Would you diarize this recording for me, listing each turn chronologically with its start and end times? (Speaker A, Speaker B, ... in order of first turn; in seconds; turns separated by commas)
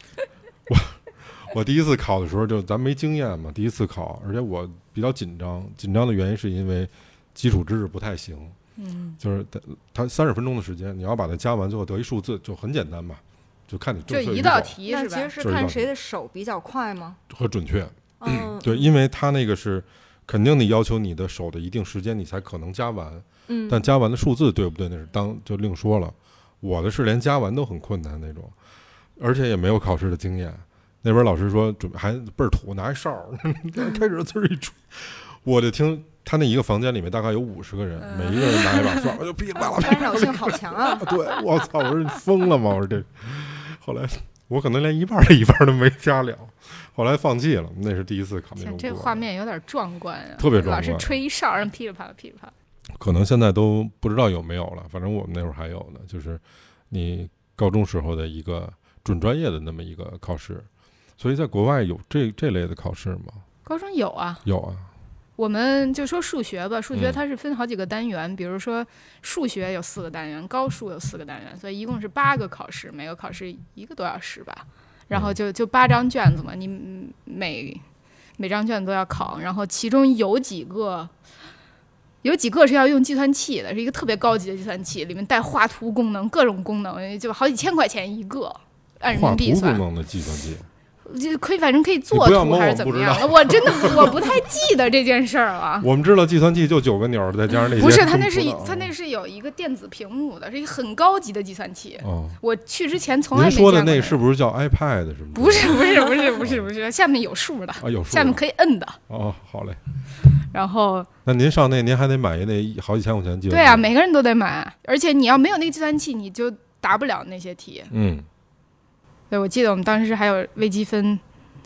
Speaker A: 0.7-8.6, Speaker B: 8.8-9.2, Speaker A: 9.2-14.8, Speaker B: 14.1-15.3, Speaker C: 14.9-17.2, Speaker A: 15.4-15.9, Speaker A: 17.3-28.6, Speaker C: 18.2-18.9, Speaker C: 23.5-23.9, Speaker A: 29.2-49.2, Speaker B: 38.0-39.1, Speaker C: 39.6-41.2, Speaker B: 48.6-52.5, Speaker A: 50.4-51.2, Speaker A: 53.0-60.7, Speaker A: 61.2-63.4, Speaker B: 63.6-64.4, Speaker A: 64.5-64.9, Speaker B: 65.4-77.8, Speaker A: 66.9-67.2, Speaker A: 75.1-75.4, Speaker B: 78.4-81.1, Speaker B: 82.2-89.8, Speaker A: 89.1-90.7, Speaker B: 91.0-95.9, Speaker A: 92.1-94.3, Speaker A: 95.8-98.9, Speaker B: 97.8-104.2, Speaker A: 102.0-102.4, Speaker A: 103.3-106.7, Speaker B: 105.3-109.0, Speaker A: 107.8-108.4, Speaker A: 109.1-109.8, Speaker B: 110.5-111.1, Speaker A: 111.2-113.9, Speaker B: 113.5-117.9, Speaker A: 117.9-118.3, Speaker B: 119.3-121.2